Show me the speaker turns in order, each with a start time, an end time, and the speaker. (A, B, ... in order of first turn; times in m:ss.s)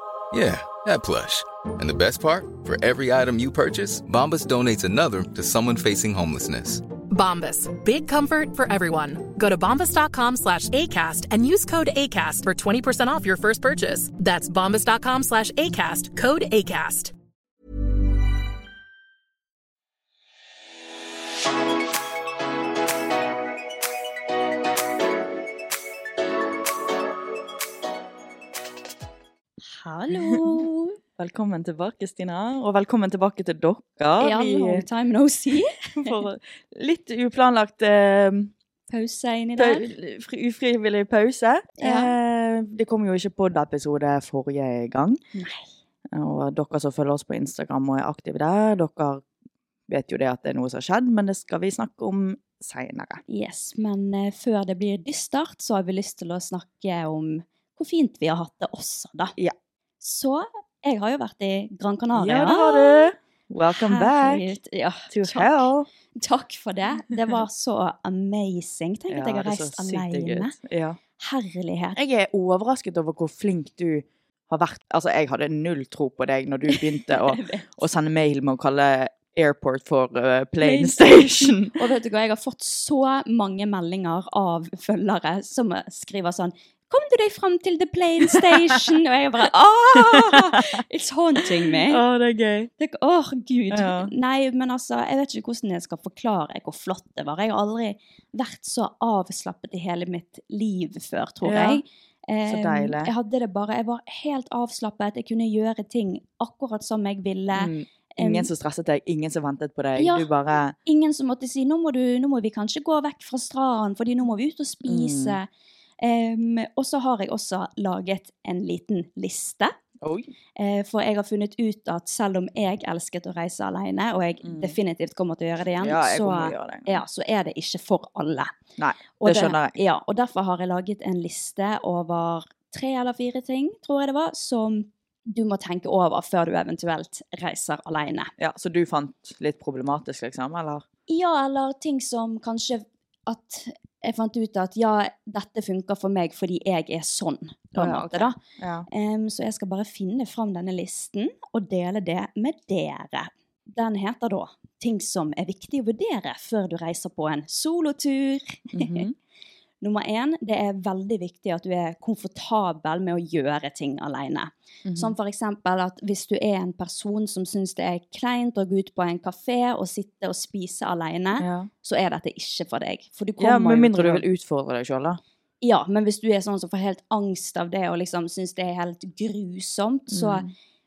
0:00.3-0:06.8 A
0:07.1-0:17.1 B
0:29.7-0:31.0 C
0:30.3-0:30.6 D
0:31.2-0:34.8 D
0:34.2-0:36.2 C
0:36.0-0:38.5 D
0:38.9-0:39.8 C
0:39.6-0:45.2 D
0:41.8-0:42.1 C
0:45.3-0:45.7 C
0:46.1-0:49.2 D
0:49.9-0:53.2 D
0:53.3-0:59.3 C
1:00.0-1:03.1 C
1:02.1-1:04.4 D
1:03.7-1:05.7 C
1:05.1-1:05.9 D
1:06.2-1:10.5 C
1:09.1-1:11.0 D
1:11.2-1:12.0 C
1:12.0-1:21.8 D
1:16.7-1:17.7 C
1:20.6-1:32.0 C
1:29.9-1:30.8 D
1:31.8-1:32.7 D
1:32.8-1:48.5 C
1:33.7-1:34.1 D
1:41.4-1:41.8 D
1:42.5-1:43.1 D
1:47.5-1:50.7 D
1:50.0-1:50.3 C
1:50.8-1:55.5 C
1:54.8-1:55.4 D
1:56.0-1:59.7 C
2:00.0-2:00.3 D
2:00.6-2:08.5 C
2:04.4-2:04.8 D
2:05.8-2:07.0 D
2:08.8-2:09.8 D
2:09.2-2:18.3 C
2:18.4-2:20.8 D
2:21.1-2:28.4 C
2:27.7-2:28.8 D
2:28.9-2:39.1 C
2:38.7-2:39.1 D
2:39.8-2:54.2 C
2:44.8-2:45.1 D
2:51.4-2:51.7 D
2:53.4-2:55.2 D
2:55.6-3:00.5 C
3:00.1-3:00.5 D